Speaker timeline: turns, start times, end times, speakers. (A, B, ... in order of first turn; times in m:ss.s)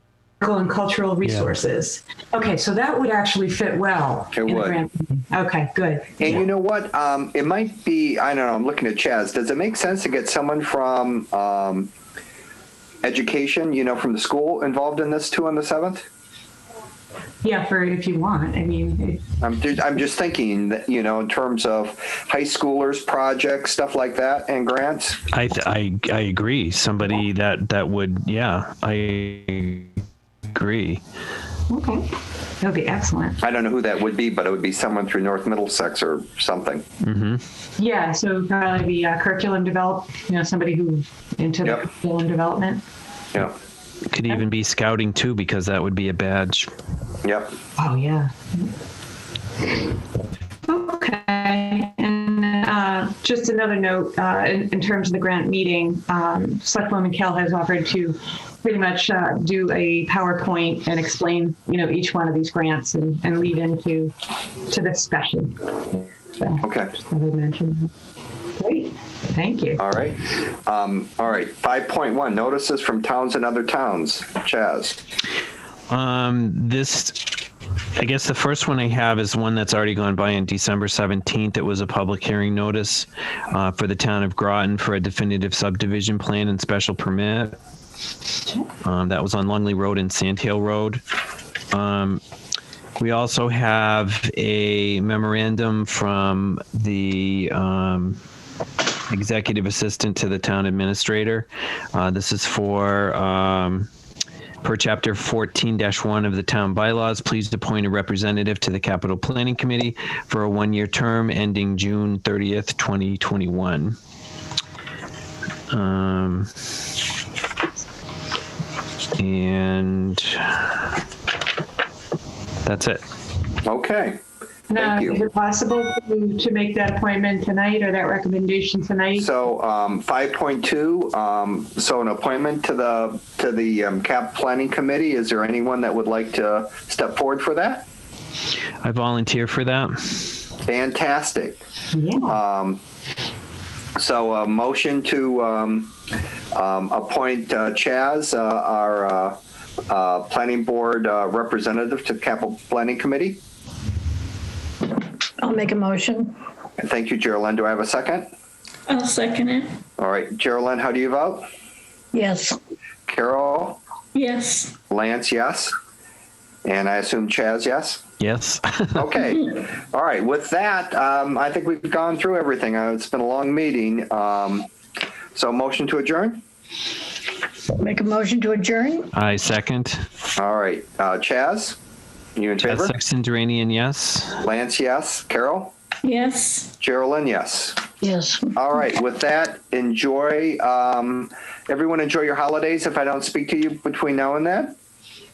0:00.4-0:06.4 A
0:04.3-0:04.8 B
0:06.2-0:11.9 B
0:13.0-0:16.1 B
0:17.4-0:19.2 A
0:19.4-0:25.2 B
0:25.3-0:30.0 C
0:30.5-0:31.0 C
0:31.7-0:33.4 A
0:33.4-0:36.8 B
0:37.0-0:37.4 C
0:37.8-0:42.8 A
0:44.1-0:46.7 C
0:47.2-0:47.5 B
0:47.8-0:48.7 A
0:50.6-1:04.1 A
1:04.6-1:07.9 A
1:06.6-1:06.9 B
1:08.6-1:09.8 A
1:09.8-1:15.0 B
1:15.9-1:17.4 C
1:18.0-1:27.6 C
1:28.8-1:31.0 C
1:31.7-1:32.2 C
1:33.0-1:38.2 C
1:39.1-1:43.9 C
1:44.6-1:54.0 C
1:55.7-1:56.5 C
1:59.2-2:00.8 C
2:02.6-2:03.0 C
2:03.6-2:04.2 B
2:04.7-2:09.3 A
2:04.8-2:05.2 B
2:09.2-2:17.8 B
2:18.8-2:20.4 C
2:20.6-2:21.6 B
2:21.9-2:22.3 A
2:22.2-2:22.8 B
2:24.0-2:25.9 B
2:26.5-2:33.4 B
2:35.4-2:36.3 D
2:36.8-2:38.3 B
2:38.9-2:39.7 E
2:40.0-2:41.4 B
2:42.1-2:42.6 D
2:43.1-2:43.8 B
2:44.1-2:44.7 E
2:44.9-2:45.7 B
2:46.6-2:48.0 B
2:48.2-2:49.1 C
2:48.9-2:54.7 B
2:55.3-2:56.4 B
2:57.8-2:59.1 D
2:59.1-3:00.0 C
3:00.4-3:01.8 B
3:02.4-3:02.9 B
3:02.6-3:04.4 C
3:04.4-3:05.7 B
3:06.0-3:06.7 E
3:06.8-3:07.8 B
3:08.0-3:08.5 D
3:08.5-3:14.8 B